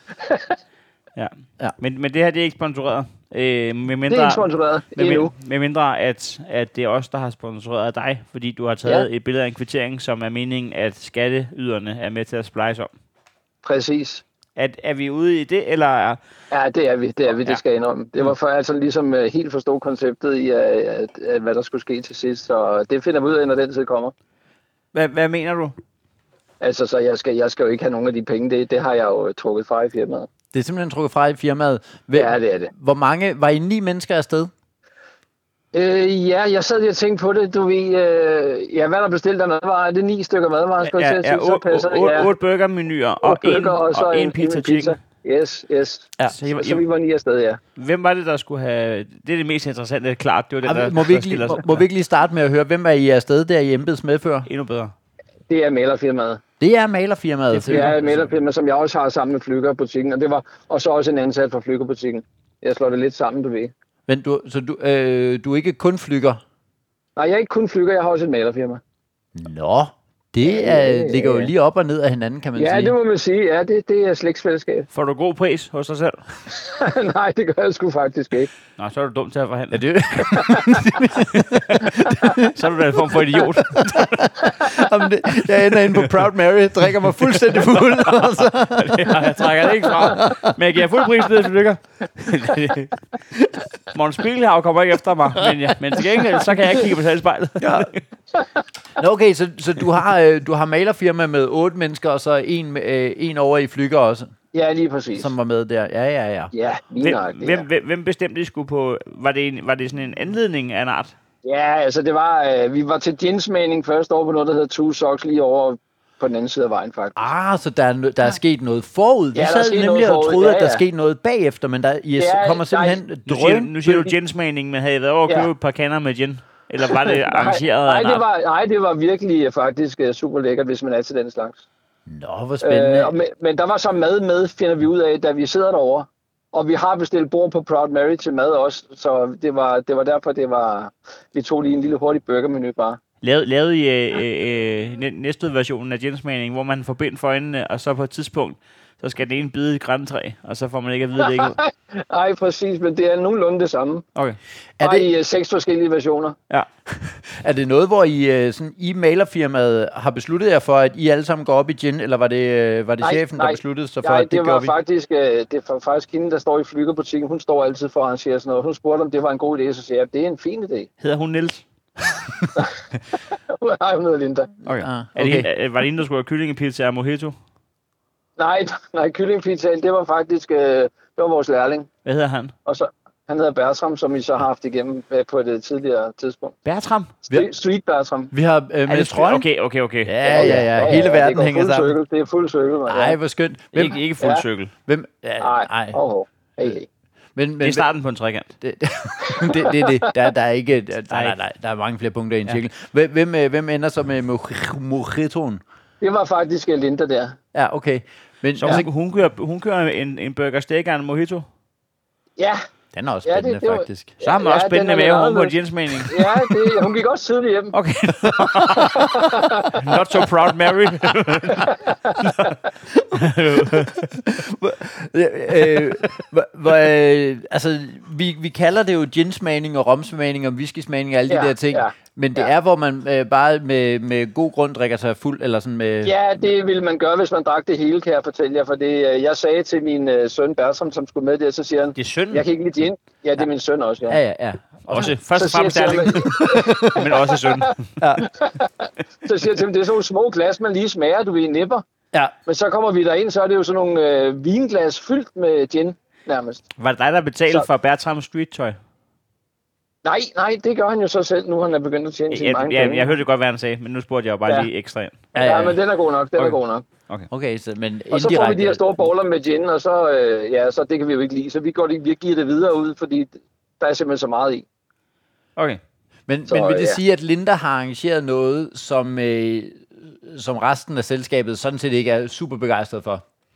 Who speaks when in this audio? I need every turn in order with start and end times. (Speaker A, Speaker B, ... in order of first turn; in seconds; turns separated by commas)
Speaker A: 0.2-0.6, Speaker B: 1.1-12.9, Speaker A: 4.1-5.3, Speaker A: 13.6-14.2, Speaker B: 14.6-16.2, Speaker A: 16.5-24.1, Speaker B: 24.9-25.8, Speaker A: 26.6-30.3, Speaker C: 30.5-34.5, Speaker A: 32.1-32.7, Speaker A: 35.7-42.3, Speaker B: 40.8-45.0, Speaker A: 43.2-47.6, Speaker B: 46.3-46.8, Speaker B: 47.8-51.8, Speaker C: 50.6-54.5, Speaker B: 54.5-54.9, Speaker A: 55.5-56.4, Speaker C: 56.6-58.0, Speaker B: 57.5-58.3, Speaker A: 57.6-63.7, Speaker C: 64.1-66.4, Speaker A: 67.2-68.8, Speaker C: 69.3-72.9, Speaker A: 70.4-71.5, Speaker A: 72.6-74.9, Speaker B: 74.9-76.2, Speaker A: 76.5-78.5, Speaker B: 78.8-79.8, Speaker C: 79.7-90.5, Speaker A: 80.3-80.6, Speaker B: 81.7-84.3, Speaker B: 88.8-93.1, Speaker B: 93.9-98.0, Speaker C: 97.6-97.9, Speaker C: 99.0-104.3, Speaker A: 104.5-105.3, Speaker C: 105.2-106.5, Speaker A: 106.5-107.7, Speaker B: 107.0-111.2, Speaker A: 111.4-117.3, Speaker C: 117.2-124.1, Speaker A: 119.3-120.8, Speaker A: 122.2-123.0, Speaker B: 123.3-128.2, Speaker A: 126.9-131.6, Speaker C: 132.1-133.2, Speaker A: 132.6-143.0, Speaker B: 143.2-151.6, Speaker A: 151.2-154.1, Speaker C: 154.8-155.1, Speaker A: 154.8-156.4, Speaker C: 156.9-164.7, Speaker A: 163.0-170.9, Speaker B: 171.0-171.7, Speaker A: 172.6-174.6, Speaker B: 174.7-177.4, Speaker C: 174.7-175.5, Speaker A: 178.4-181.9, Speaker B: 182.1-182.5, Speaker A: 182.7-186.6, Speaker B: 186.7-187.1, Speaker A: 187.3-188.3, Speaker C: 188.3-189.5, Speaker B: 188.9-190.8, Speaker C: 190.1-192.0, Speaker A: 190.2-193.2, Speaker C: 192.9-194.0, Speaker B: 193.7-194.7, Speaker A: 194.2-194.5, Speaker C: 194.9-196.0, Speaker A: 195.4-196.9, Speaker C: 197.3-197.9, Speaker B: 197.6-198.6, Speaker C: 198.6-205.6, Speaker A: 199.2-200.1, Speaker B: 201.1-201.4, Speaker A: 206.0-207.4, Speaker C: 207.5-208.9, Speaker B: 208.6-211.5, Speaker C: 212.9-214.2, Speaker A: 213.2-217.8, Speaker B: 214.2-216.3, Speaker B: 217.7-222.6, Speaker C: 218.2-219.1, Speaker A: 218.8-219.8, Speaker A: 221.5-222.3, Speaker B: 223.1-223.9, Speaker C: 223.5-236.1, Speaker A: 231.3-232.5, Speaker A: 236.0-244.2, Speaker B: 242.0-242.4, Speaker C: 244.1-245.1, Speaker B: 244.8-247.9, Speaker A: 245.1-251.8, Speaker C: 246.2-247.0, Speaker C: 248.0-248.3, Speaker A: 252.5-256.6, Speaker B: 256.8-258.8, Speaker A: 260.1-263.2, Speaker B: 262.3-265.2, Speaker C: 265.3-265.8, Speaker A: 265.3-266.8, Speaker C: 267.3-269.0, Speaker A: 268.1-274.6, Speaker C: 276.3-283.2, Speaker A: 276.5-277.0